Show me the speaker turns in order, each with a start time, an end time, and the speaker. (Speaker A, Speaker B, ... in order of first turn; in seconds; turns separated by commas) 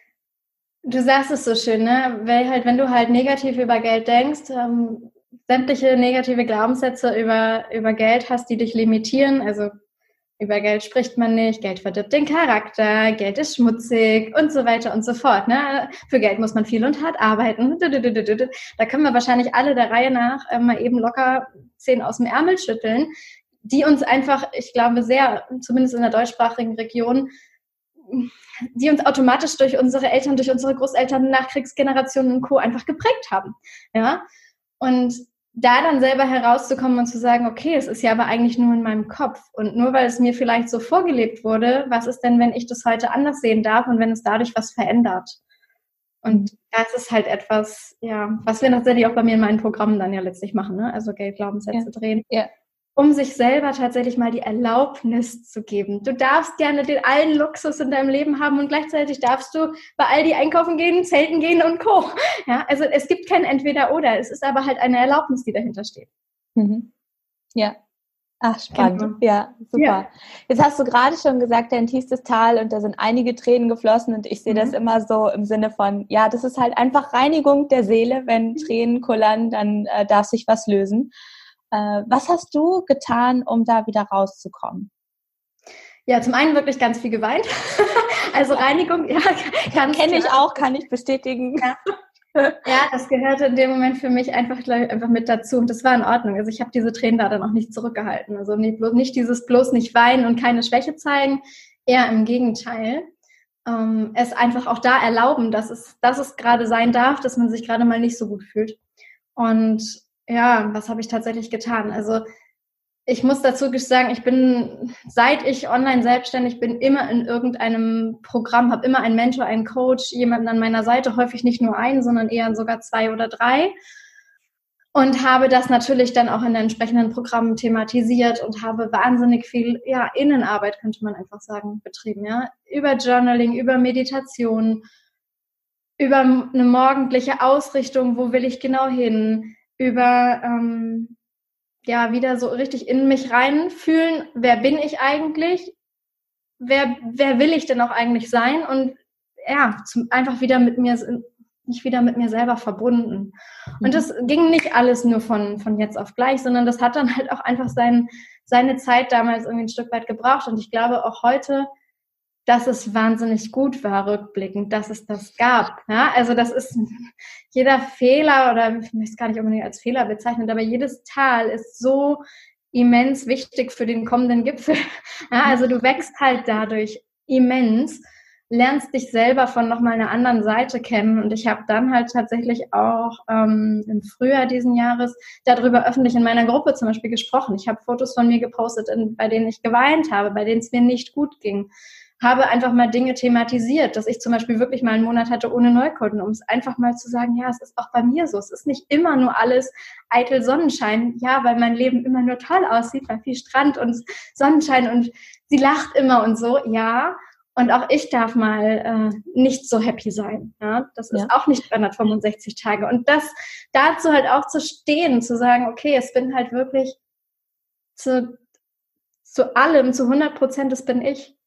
Speaker A: 0.9-9.7, Speaker A: 10.4-23.1, Speaker A: 23.6-27.3, Speaker A: 28.1-34.2, Speaker A: 34.8-45.4, Speaker A: 46.2-52.3, Speaker B: 51.7-52.5, Speaker A: 53.0-66.1, Speaker B: 66.6-66.9, Speaker B: 68.4-81.1, Speaker A: 68.7-69.2, Speaker A: 69.7-70.0, Speaker A: 74.5-74.8, Speaker B: 81.7-84.9, Speaker A: 86.1-90.5, Speaker B: 89.9-91.8, Speaker B: 92.3-92.6, Speaker A: 92.7-103.1, Speaker A: 103.7-108.8, Speaker A: 109.4-112.2, Speaker A: 113.1-123.7, Speaker A: 125.0-134.8, Speaker A: 136.0-141.2, Speaker A: 141.9-145.8, Speaker A: 146.6-161.7, Speaker A: 162.5-172.2, Speaker A: 172.7-174.8, Speaker A: 175.3-191.7, Speaker A: 192.2-217.0, Speaker A: 218.0-218.4, Speaker A: 219.3-221.3